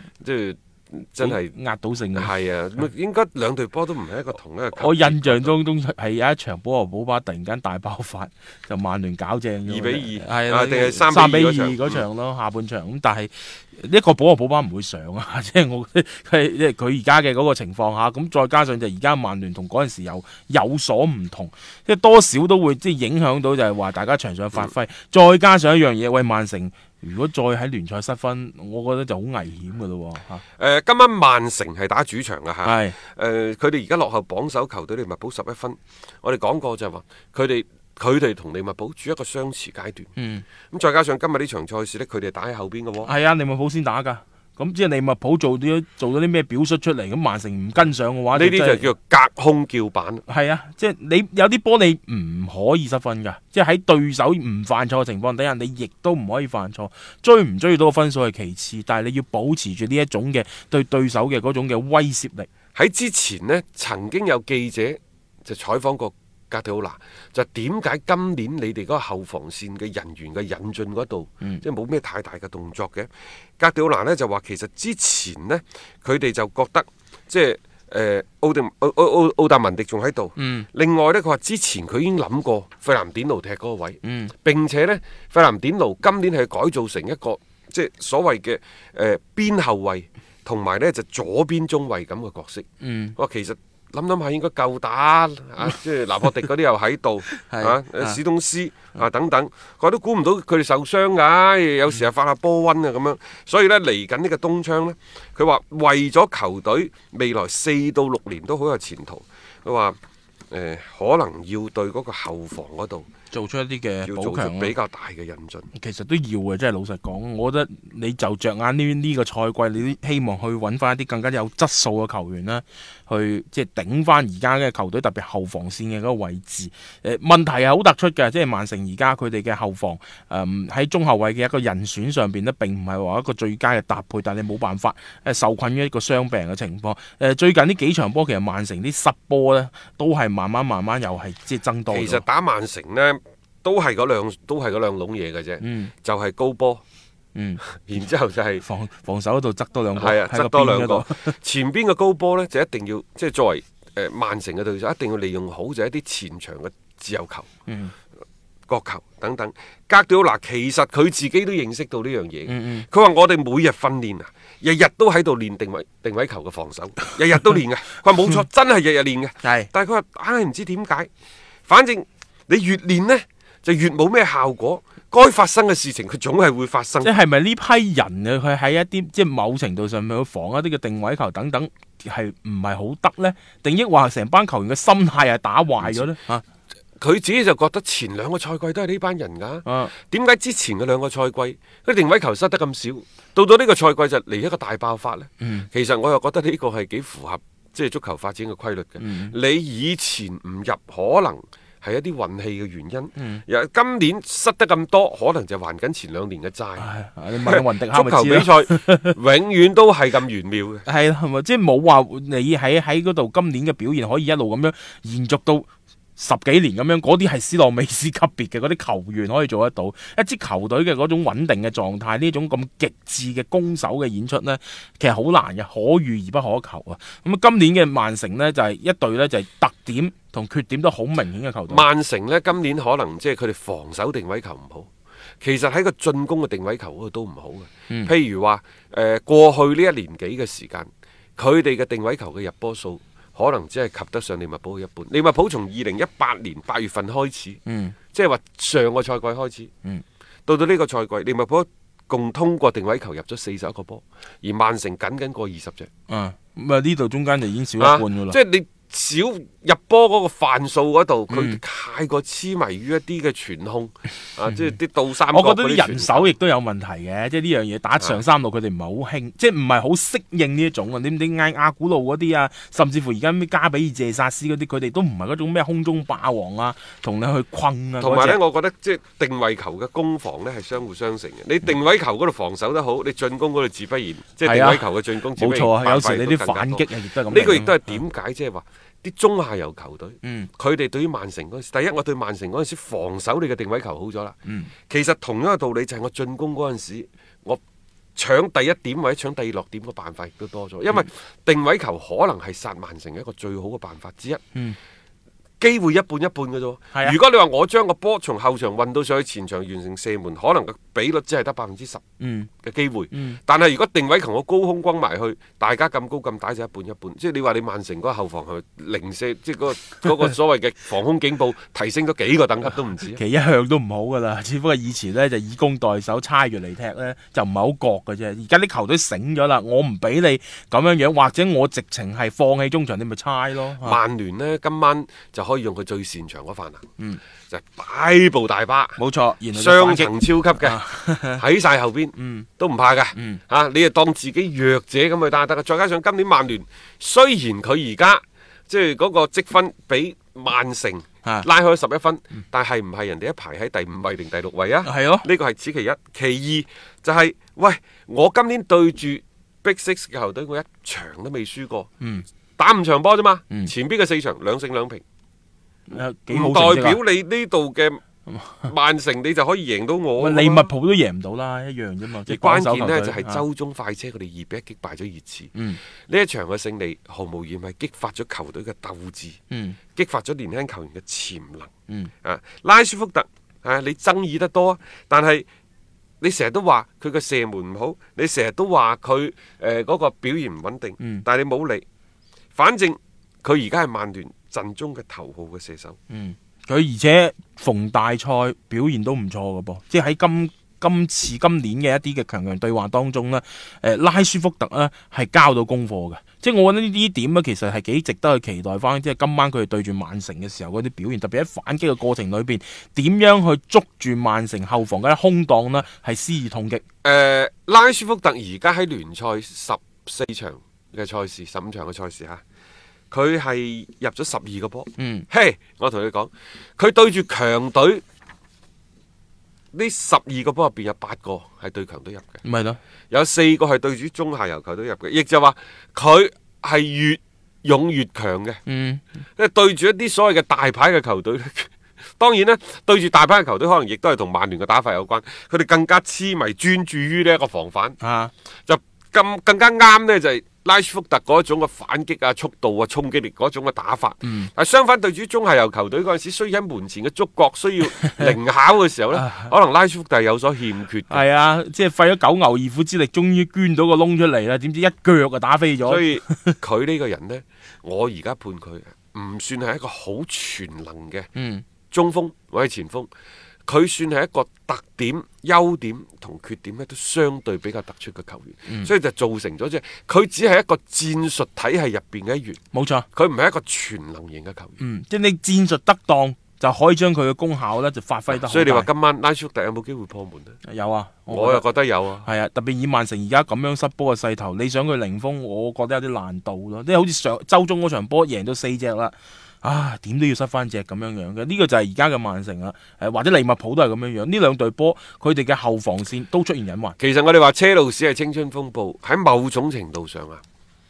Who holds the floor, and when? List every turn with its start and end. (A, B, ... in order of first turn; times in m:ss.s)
0:00.2-0:01.5 A
0:01.2-0:02.3 B
0:02.2-0:05.5 A
0:04.8-0:30.4 B
0:09.6-0:12.0 A
0:30.6-0:40.1 A
0:32.6-0:33.0 B
0:40.2-0:40.4 B
0:40.7-0:43.1 A
0:43.0-0:48.9 B
0:48.3-0:50.2 A
0:50.3-1:02.5 B
1:02.8-1:32.6 A
1:20.4-1:20.7 B
1:24.0-1:24.3 B
1:32.8-1:33.2 B
1:33.2-1:50.0 A
1:37.4-1:38.2 B
1:50.5-1:53.1 A
1:53.3-1:54.7 B
1:54.0-1:55.7 A
1:55.7-2:22.2 B
2:21.9-2:26.8 A
2:25.6-2:25.9 B
2:27.3-2:27.6 B
2:27.8-2:28.6 A
2:28.6-2:31.3 B
2:30.0-2:37.5 A
2:37.7-2:37.9 B
2:38.7-2:51.1 A
2:42.5-2:42.8 B
2:49.4-2:49.7 B
2:51.7-2:57.1 A
2:57.0-3:06.4 B
3:07.0-3:26.9 A
3:09.6-3:09.9 B
3:15.4-3:15.7 B
3:19.0-3:19.3 B
3:23.2-3:23.4 B
3:26.8-3:29.1 B
3:27.4-3:30.8 A
3:30.8-3:51.8 B
3:51.7-3:54.9 A
3:55.4-4:07.6 A
4:07.6-4:07.9 B
4:08.1-4:09.7 A
4:10.5-4:15.9 A
4:16.1-4:18.4 B
4:17.8-4:26.3 A
4:21.3-4:21.6 B
4:25.3-4:38.4 B
4:38.0-4:54.3 A
4:44.4-4:48.0 B
4:50.2-4:50.5 B
4:54.4-4:54.7 B
4:54.9-4:57.6 A
4:58.2-5:04.4 A
5:05.6-5:12.0 A
5:12.2-5:12.5 B
5:12.6-5:23.2 A
5:13.1-5:13.4 B
5:23.1-5:34.0 B
5:33.8-5:36.8 A
5:37.5-5:39.0 A
5:39.0-5:41.4 B
5:39.5-5:40.8 A
5:41.4-6:01.9 A
5:42.2-5:42.5 B
5:43.2-5:43.4 B
5:54.8-5:55.3 B
6:02.6-6:05.0 A
6:05.9-6:07.0 B
6:06.3-6:08.0 A
6:08.6-6:10.7 A
6:10.2-6:13.4 B
6:12.3-6:15.5 A
6:15.5-6:15.8 B
6:16.1-6:19.4 A
6:19.5-6:19.8 B
6:20.0-6:21.7 A
6:22.2-6:25.4 A
6:26.2-6:31.8 A
6:31.0-6:31.2 B
6:32.5-6:36.0 A
6:36.1-6:56.8 B
6:57.0-7:02.4 A
7:03.1-7:08.0 A
7:05.0-7:05.2 B
7:09.7-7:12.4 A
7:12.4-7:12.8 B
7:13.1-7:18.6 A
7:18.6-7:19.0 B
7:19.4-7:28.0 A
7:28.0-7:28.3 B
7:28.6-7:41.2 A
7:34.2-7:34.5 B
7:38.0-7:38.3 B
7:39.1-7:39.5 B
7:41.1-7:46.6 B
7:45.8-7:51.3 A
7:51.3-7:51.6 B
7:51.9-7:53.1 A
7:53.7-8:02.6 A
8:02.7-8:03.0 B
8:03.1-8:04.8 A
8:04.8-8:08.9 B
8:08.3-8:10.6 A
8:10.6-8:11.6 B
8:11.3-8:12.3 A
8:12.2-8:27.0 B
8:27.0-8:30.4 A